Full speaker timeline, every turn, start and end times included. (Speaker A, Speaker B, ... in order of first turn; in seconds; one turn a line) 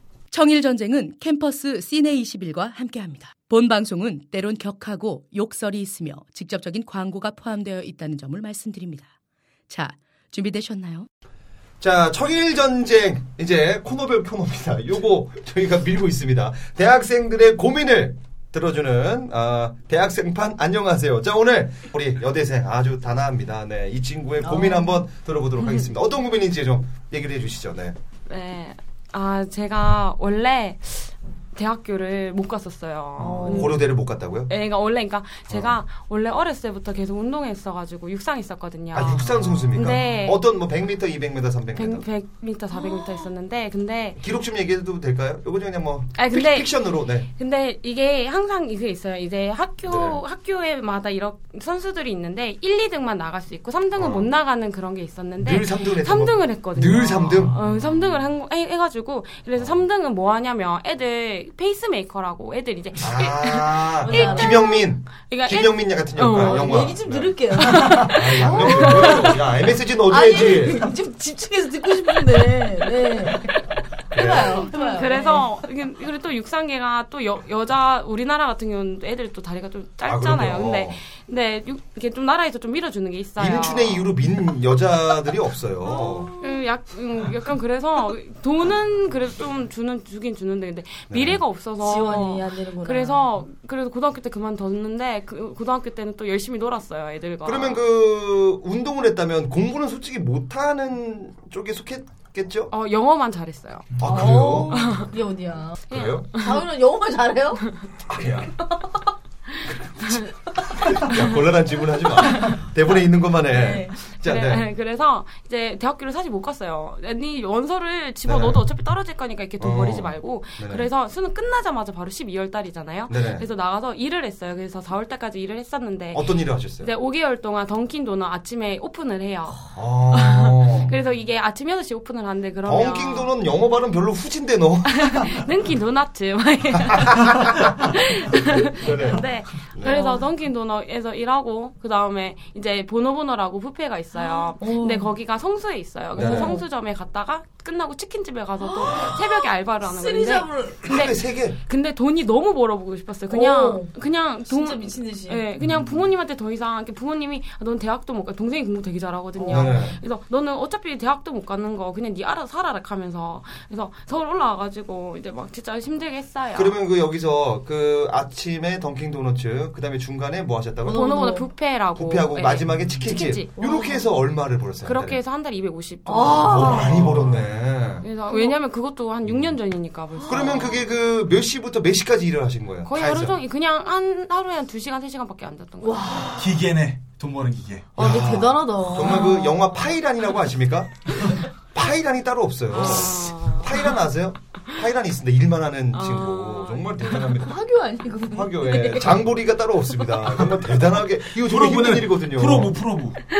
Speaker A: 0.3-9.1
Speaker A: 9.7-11.1
Speaker B: 11.8-28.0
Speaker C: 24.4-25.0
Speaker D: 28.3-33.9
Speaker C: 33.2-33.8
Speaker B: 33.2-34.5
Speaker D: 34.5-40.4
Speaker B: 35.5-35.7
Speaker B: 38.9-42.0
Speaker D: 41.7-44.2
Speaker C: 42.8-43.1
Speaker B: 44.2-47.3
Speaker D: 46.1-46.8
Speaker D: 47.2-67.0
Speaker B: 49.9-50.2
Speaker B: 54.0-54.3
Speaker B: 55.4-57.6
Speaker B: 59.6-59.8
Speaker B: 63.0-70.8
Speaker C: 64.0-64.8
Speaker C: 66.3-69.4
Speaker D: 67.5-69.3
Speaker C: 70.1-73.6
Speaker C: 74.1-75.5
Speaker B: 74.1-74.6
Speaker D: 74.2-84.1
Speaker B: 80.0-81.0
Speaker B: 83.4-86.3
Speaker C: 85.9-86.6
Speaker D: 86.4-97.8
Speaker B: 91.1-91.4
Speaker C: 91.8-93.3
Speaker B: 97.5-102.7
Speaker D: 102.7-104.0
Speaker B: 104.0-104.9
Speaker C: 104.0-107.7
Speaker D: 104.7-105.1
Speaker B: 105.9-106.3
Speaker D: 105.9-106.6
Speaker B: 108.1-108.6
Speaker B: 110.8-114.7
Speaker C: 113.5-114.0
Speaker D: 114.2-133.3
Speaker B: 118.2-118.6
Speaker B: 119.6-120.9
Speaker B: 123.1-123.5
Speaker B: 126.1-126.9
Speaker B: 129.7-130.9
Speaker B: 132.6-135.3
Speaker D: 134.9-166.8
Speaker B: 138.4-140.0
Speaker C: 139.9-140.1
Speaker C: 144.2-145.1
Speaker B: 146.1-146.6
Speaker C: 146.2-146.6
Speaker C: 148.6-150.8
Speaker B: 150.8-151.6
Speaker C: 153.3-153.9
Speaker C: 154.4-155.5
Speaker B: 155.6-156.0
Speaker C: 159.4-159.9
Speaker B: 159.5-160.0
Speaker B: 166.6-171.0
Speaker C: 170.8-171.5
Speaker D: 170.9-173.6
Speaker B: 171.9-175.2
Speaker C: 173.6-174.1
Speaker D: 174.8-177.1
Speaker C: 176.1-177.1
Speaker B: 176.4-178.1
Speaker D: 178.0-180.8
Speaker C: 178.3-178.6
Speaker C: 180.2-180.6
Speaker B: 180.3-183.4
Speaker D: 182.8-186.2
Speaker C: 185.8-186.6
Speaker E: 186.4-187.9
Speaker C: 188.0-189.7
Speaker B: 188.0-197.5
Speaker D: 192.7-193.9
Speaker D: 195.9-197.2
Speaker C: 197.2-199.2
Speaker B: 198.3-202.8
Speaker E: 201.3-203.2